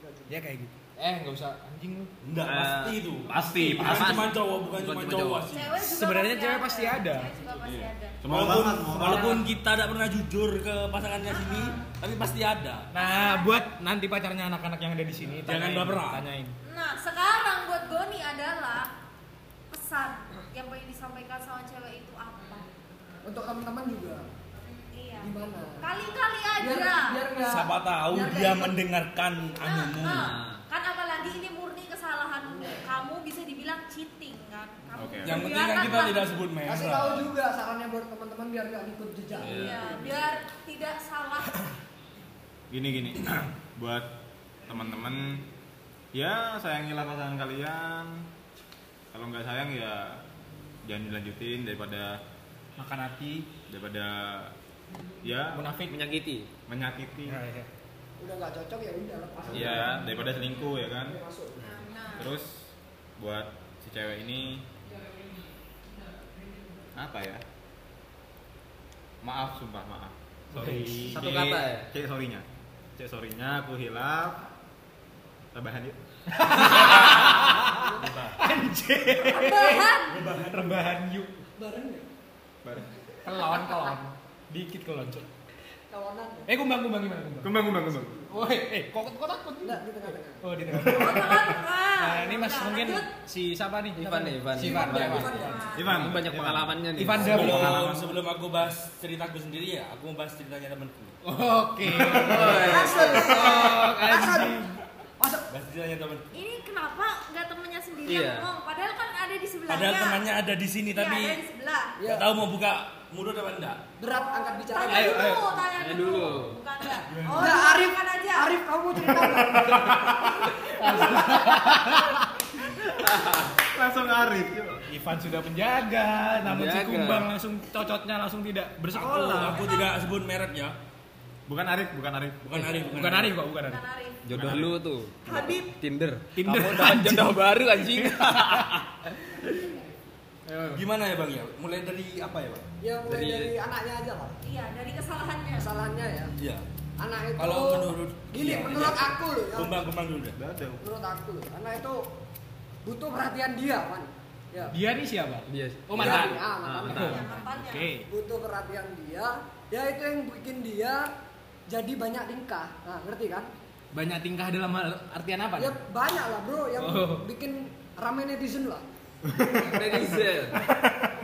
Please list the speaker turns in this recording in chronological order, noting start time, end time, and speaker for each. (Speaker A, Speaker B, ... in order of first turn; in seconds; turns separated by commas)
Speaker A: 0.3-2.1, Speaker B: 2.2-5.8, Speaker C: 2.4-5.5, Speaker A: 3.4-4.1, Speaker D: 5.5-8.2, Speaker A: 5.8-7.3, Speaker B: 7.6-12.9, Speaker E: 8.2-9.4, Speaker D: 11.3-11.9, Speaker A: 12.9-16.6, Speaker D: 13.0-13.6, Speaker B: 15.4-16.2, Speaker D: 16.6-18.9, Speaker D: 19.7-22.7, Speaker F: 23.2-24.3, Speaker D: 24.7-27.3, Speaker F: 25.2-25.9, Speaker F: 26.6-28.8, Speaker B: 27.4-30.4, Speaker D: 29.6-36.4, Speaker C: 30.1-30.6, Speaker E: 34.9-35.5, Speaker B: 35.2-37.3, Speaker F: 36.6-40.3, Speaker D: 39.3-41.6, Speaker C: 39.4-40.0, Speaker E: 42.7-44.1, Speaker E: 44.7-45.5, Speaker E: 46.1-48.3, Speaker E: 49.1-50.2, Speaker E: 50.9-52.2, Speaker A: 52.8-53.5, Speaker E: 53.7-54.5, Speaker E: 55.2-55.7, Speaker A: 55.5-56.0, Speaker C: 55.9-56.5, Speaker E: 56.7-57.4, Speaker A: 57.3-57.7, Speaker F: 58.2-61.8, Speaker E: 59.5-61.2, Speaker D: 61.6-62.3, Speaker E: 62.1-64.7, Speaker E: 66.9-67.4, Speaker E: 69.2-74.5, Speaker A: 70.5-71.1, Speaker C: 70.9-71.9, Speaker E: 75.5-76.0, Speaker A: 76.3-81.4, Speaker B: 76.6-78.4, Speaker F: 77.8-78.1, Speaker D: 79.3-80.2, Speaker B: 80.1-80.8, Speaker F: 81.6-82.1, Speaker E: 82.6-82.9, Speaker A: 83.2-85.3, Speaker F: 83.5-83.8, Speaker F: 85.9-86.5, Speaker A: 86.5-87.6, Speaker E: 87.4-88.2, Speaker A: 88.3-89.9, Speaker F: 89.6-91.2, Speaker A: 90.4-95.6, Speaker D: 90.8-93.1, Speaker C: 94.0-97.5, Speaker F: 94.6-95.9, Speaker D: 95.2-96.0, Speaker E: 95.7-98.2, Speaker A: 97.0-97.8, Speaker B: 97.2-101.2, Speaker A: 101.2-104.7, Speaker C: 102.0-103.5, Speaker F: 102.3-104.6, Speaker F: 105.2-105.5, Speaker B: 105.5-106.3, Speaker D: 106.3-110.3, Speaker C: 108.1-108.5, Speaker B: 109.7-111.4, Speaker D: 110.9-112.0, Speaker F: 112.0-112.3, Speaker B: 112.0-113.8, Speaker F: 114.0-115.4, Speaker D: 114.0-118.6, Speaker A: 114.9-115.4, Speaker C: 115.0-116.6, Speaker E: 117.1-117.6, Speaker F: 117.3-120.0, Speaker E: 119.2-120.1, Speaker A: 120.5-122.3, Speaker C: 121.0-121.9, Speaker C: 123.0-123.5, Speaker E: 123.6-124.8, Speaker A: 124.9-129.6, Speaker C: 126.4-127.3, Speaker B: 128.9-130.8, Speaker D: 129.6-129.9, Speaker E: 131.5-132.9, Speaker B: 132.4-133.4, Speaker A: 132.8-133.8, Speaker D: 133.6-134.2, Speaker C: 134.2-139.4, Speaker E: 134.3-134.8, Speaker B: 134.4-134.7, Speaker D: 135.2-135.7, Speaker A: 136.3-138.8, Speaker F: 139.4-140.0, Speaker A: 140.5-140.8, Speaker B: 140.7-142.7, Speaker F: 142.8-144.4, Speaker C: 143.1-143.5, Speaker D: 144.4-145.7, Speaker F: 145.6-146.3, Speaker B: 146.4-146.7, Speaker F: 147.0-149.9, Speaker B: 147.3-150.4, Speaker E: 150.4-150.8, Speaker F: 150.8-152.1, Speaker F: 152.8-154.8, Speaker A: 154.7-158.1, Speaker C: 155.5-157.3, Speaker F: 155.9-157.3, Speaker D: 156.9-157.9, Speaker F: 158.1-161.1, Speaker F: 161.7-163.5, Speaker A: 163.9-165.8, Speaker F: 165.6-168.8, Speaker A: 166.8-167.2, Speaker E: 169.4-169.7, Speaker C: 169.6-170.6